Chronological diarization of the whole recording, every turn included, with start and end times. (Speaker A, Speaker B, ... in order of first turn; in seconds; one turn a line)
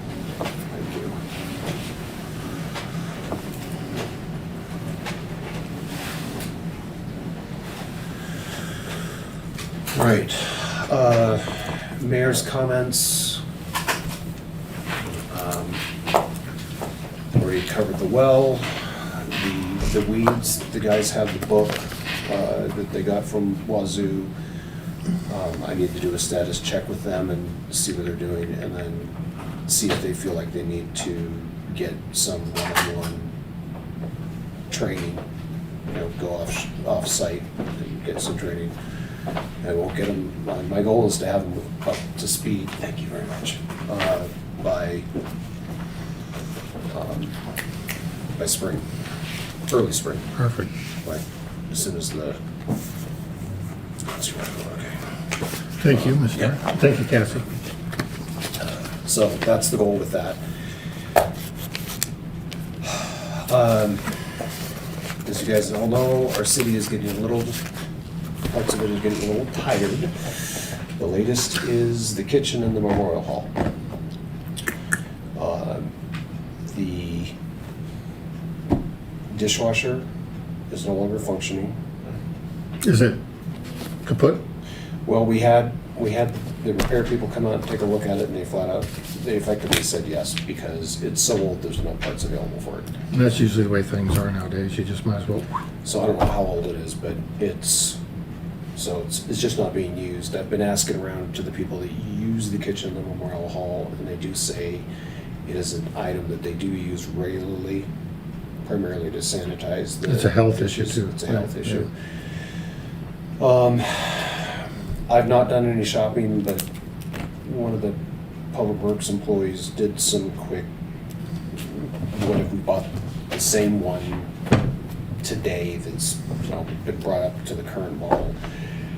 Speaker A: 0.7-1.2
Speaker A: 9.9-13.4
Speaker A: 15.3-15.8
Speaker A: 17.3-24.3
Speaker A: 25.3-29.1
Speaker A: 29.7-33.3
Speaker A: 34.7-35.2
Speaker A: 35.9-38.7
Speaker A: 39.6-45.0
Speaker A: 46.9-47.4
Speaker A: 48.4-48.9
Speaker A: 49.7-50.3
Speaker B: 50.4-50.7
Speaker A: 51.0-52.4
Speaker A: 54.1-55.0
Speaker B: 55.8-57.5
Speaker A: 56.0-56.6
Speaker A: 59.0-60.4
Speaker A: 62.9-64.1
Speaker A: 65.2-67.6
Speaker A: 68.5-73.5
Speaker A: 75.3-75.9
Speaker A: 76.7-77.3
Speaker A: 79.3-80.0
Speaker A: 80.7-82.1
Speaker B: 82.8-83.2
Speaker B: 84.0-84.4
Speaker A: 85.0-92.9
Speaker B: 93.1-95.5
Speaker A: 95.8-98.0
Speaker A: 98.8-104.8
Speaker A: 105.5-107.9
Speaker A: 108.6-111.9
Speaker B: 110.1-111.8
Speaker A: 113.4-116.6
Speaker A: 117.4-118.0
Speaker A: 118.5-120.7
Speaker A: 121.7-124.3
Speaker A: 125.2-128.4